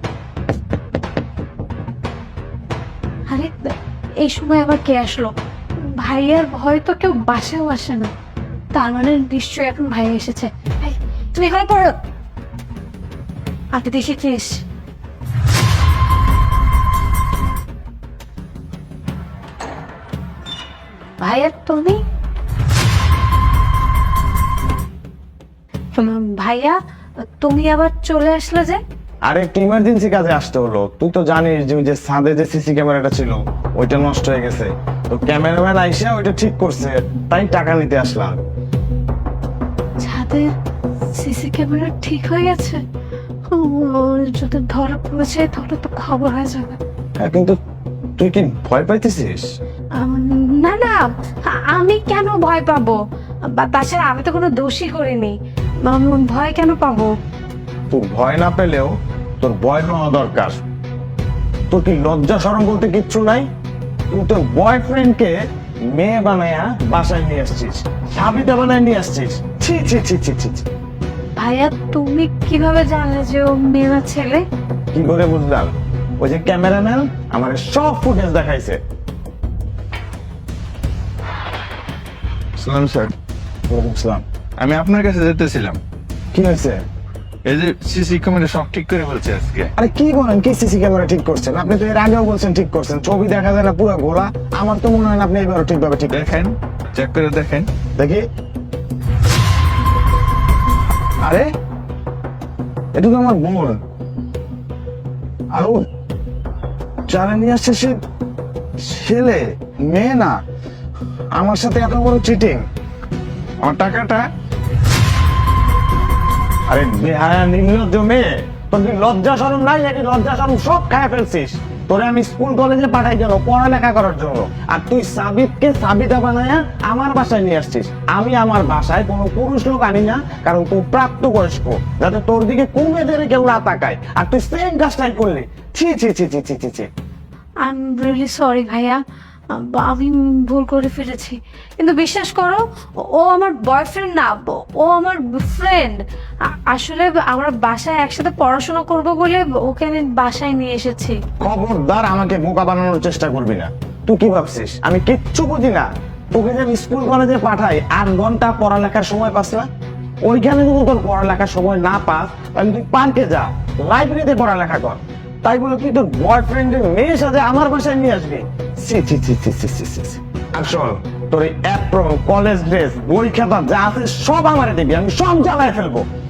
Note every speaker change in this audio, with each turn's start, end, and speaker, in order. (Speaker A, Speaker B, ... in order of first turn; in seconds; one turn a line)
Speaker A: 4.2-5.3
Speaker A: 6.0-8.1
Speaker A: 8.8-12.0
Speaker A: 13.7-14.6
Speaker A: 21.2-22.0
Speaker A: 26.0-26.8
Speaker A: 27.4-28.8
Speaker B: 29.3-38.4
Speaker A: 40.0-40.5
Speaker A: 41.1-42.8
Speaker A: 43.5-46.8
Speaker B: 47.2-47.5
Speaker B: 48.2-49.5
Speaker A: 50.0-51.0
Speaker A: 51.7-53.0
Speaker A: 53.5-55.3
Speaker A: 55.9-57.1
Speaker B: 57.9-60.6
Speaker B: 61.7-63.5
Speaker B: 64.1-65.3
Speaker B: 65.9-70.6
Speaker A: 71.4-74.4
Speaker B: 74.9-78.8
Speaker C: 82.6-83.1
Speaker C: 84.6-85.8
Speaker B: 86.3-86.8
Speaker C: 87.4-89.7
Speaker B: 89.8-96.4
Speaker C: 96.1-97.7
Speaker B: 98.0-98.2
Speaker B: 102.9-103.8
Speaker B: 105.5-105.8
Speaker B: 107.1-108.0
Speaker B: 108.8-110.3
Speaker B: 111.4-112.6
Speaker B: 113.6-114.2
Speaker B: 116.7-136.9
Speaker A: 137.6-139.0
Speaker A: 139.6-146.0
Speaker A: 146.7-151.2
Speaker B: 151.4-159.7
Speaker B: 160.2-176.0